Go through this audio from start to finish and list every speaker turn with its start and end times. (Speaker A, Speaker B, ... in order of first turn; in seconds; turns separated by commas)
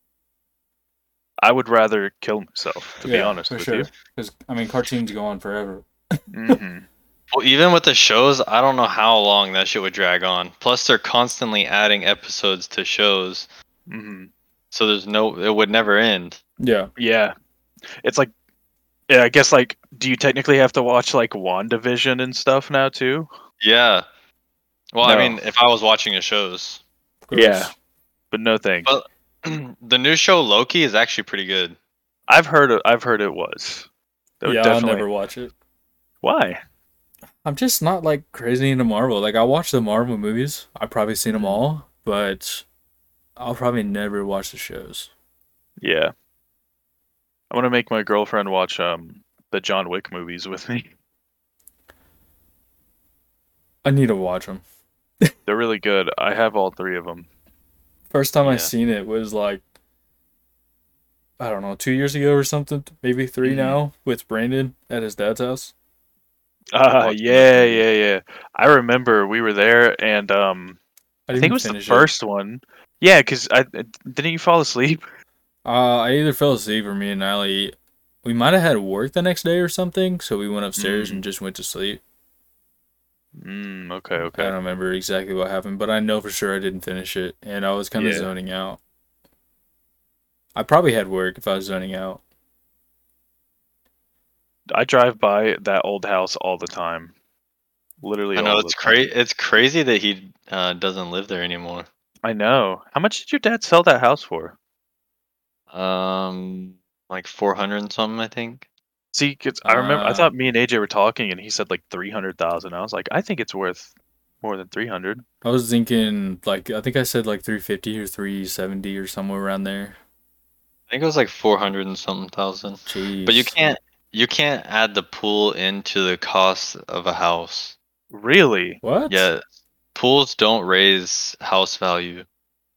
Speaker A: 1.4-3.9, Speaker B: 3.0-6.6, Speaker A: 6.3-6.9, Speaker C: 7.3-13.5, Speaker A: 13.9-14.3, Speaker C: 14.7-16.4, Speaker B: 16.6-16.9, Speaker A: 17.0-17.3, Speaker A: 18.0-18.3, Speaker A: 19.1-23.3, Speaker C: 23.6-24.1, Speaker C: 24.9-26.8, Speaker A: 25.0-25.4, Speaker B: 27.2-27.7, Speaker A: 27.3-27.7, Speaker A: 28.3-28.9, Speaker C: 28.9-31.8, Speaker A: 32.3-33.9, Speaker A: 34.4-35.0, Speaker B: 34.4-35.5, Speaker A: 36.2-36.6, Speaker B: 37.4-42.6, Speaker A: 41.3-41.6, Speaker B: 43.4-45.1, Speaker A: 45.8-46.1, Speaker A: 47.5-50.9, Speaker B: 53.8-54.6, Speaker A: 55.5-57.3, Speaker B: 58.1-59.6, Speaker C: 58.4-58.7, Speaker B: 61.4-65.7, Speaker A: 63.4-63.8, Speaker A: 66.7-70.8, Speaker C: 67.0-67.8, Speaker B: 71.3-72.1, Speaker A: 71.4-75.0, Speaker B: 75.6-82.0, Speaker A: 80.8-81.2, Speaker A: 83.4-84.5, Speaker B: 84.2-88.8, Speaker A: 88.0-88.3, Speaker B: 90.5-92.2, Speaker A: 94.7-97.1, Speaker A: 98.0-99.0, Speaker C: 98.3-101.9, Speaker A: 102.2-104.5, Speaker C: 105.7-108.6, Speaker A: 109.1-115.2, Speaker B: 109.6-110.3, Speaker B: 115.4-120.0, Speaker C: 120.9-127.8, Speaker B: 122.9-123.5, Speaker A: 128.1-128.8, Speaker B: 128.8-129.3, Speaker C: 129.1-129.4, Speaker C: 129.9-132.2